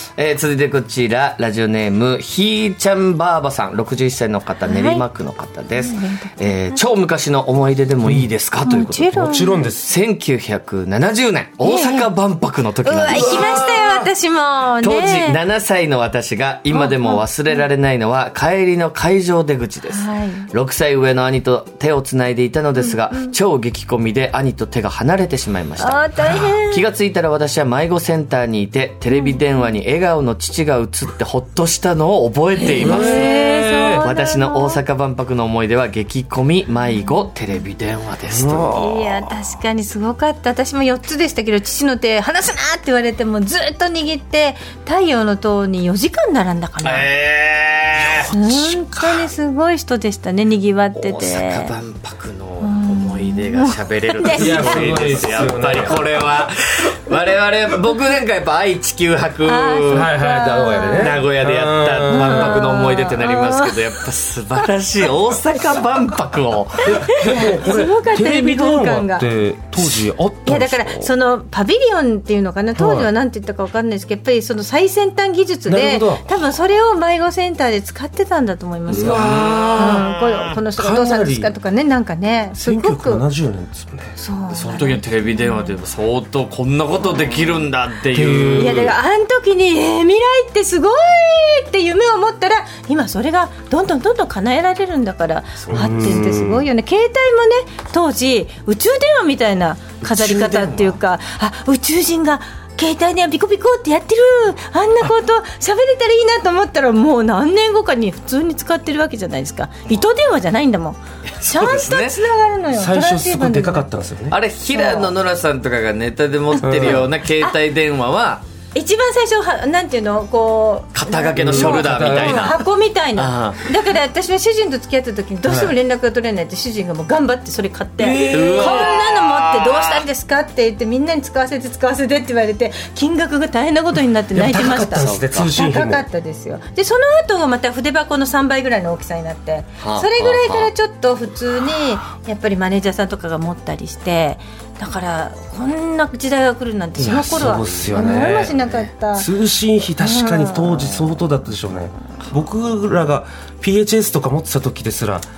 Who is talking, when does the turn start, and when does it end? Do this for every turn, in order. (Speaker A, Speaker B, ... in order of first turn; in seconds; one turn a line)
Speaker A: 0.2-14.1
Speaker B: 4.6-5.0
Speaker B: 5.8-6.8
Speaker B: 8.6-9.7
Speaker C: 9.1-9.9
Speaker B: 11.6-12.1
Speaker B: 12.8-15.4
Speaker C: 13.1-13.7
Speaker A: 14.8-38.8
Speaker B: 16.7-17.6
Speaker B: 19.9-20.5
Speaker B: 22.8-23.4
Speaker B: 25.8-26.8
Speaker B: 29.1-29.4
Speaker B: 32.6-34.8
Speaker C: 32.8-34.1
Speaker C: 38.3-39.4
Speaker B: 38.7-47.1
Speaker A: 46.8-48.3
Speaker C: 48.2-49.3
Speaker B: 48.2-51.8
Speaker A: 51.0-60.1
Speaker B: 52.6-55.2
Speaker C: 54.3-56.2
Speaker B: 59.5-61.2
Speaker C: 59.9-62.6
Speaker A: 60.8-67.4
Speaker B: 62.1-63.8
Speaker C: 66.9-71.1
Speaker B: 67.2-69.3
Speaker B: 70.5-83.3
Speaker C: 72.7-73.1
Speaker C: 75.7-76.4
Speaker A: 78.9-80.5
Speaker C: 78.9-80.1
Speaker C: 80.8-81.5
Speaker C: 82.5-84.2
Speaker B: 84.2-85.7
Speaker A: 84.5-89.0
Speaker B: 87.0-87.5
Speaker C: 88.1-89.0
Speaker B: 88.6-113.9
Speaker A: 95.6-96.2
Speaker C: 95.7-96.7
Speaker A: 100.0-101.0
Speaker A: 111.3-112.2
Speaker C: 112.7-114.4
Speaker A: 114.3-118.4
Speaker B: 114.7-115.1
Speaker B: 116.5-117.6
Speaker C: 116.6-117.1
Speaker B: 118.7-149.3
Speaker A: 120.9-122.6
Speaker C: 121.4-122.5
Speaker A: 123.2-123.6
Speaker C: 125.5-125.7
Speaker C: 128.0-128.9
Speaker A: 128.3-130.0
Speaker C: 134.3-136.1
Speaker A: 134.8-135.6
Speaker A: 139.8-140.7
Speaker C: 147.0-148.6
Speaker A: 147.0-148.8
Speaker C: 149.1-155.3
Speaker B: 150.0-151.0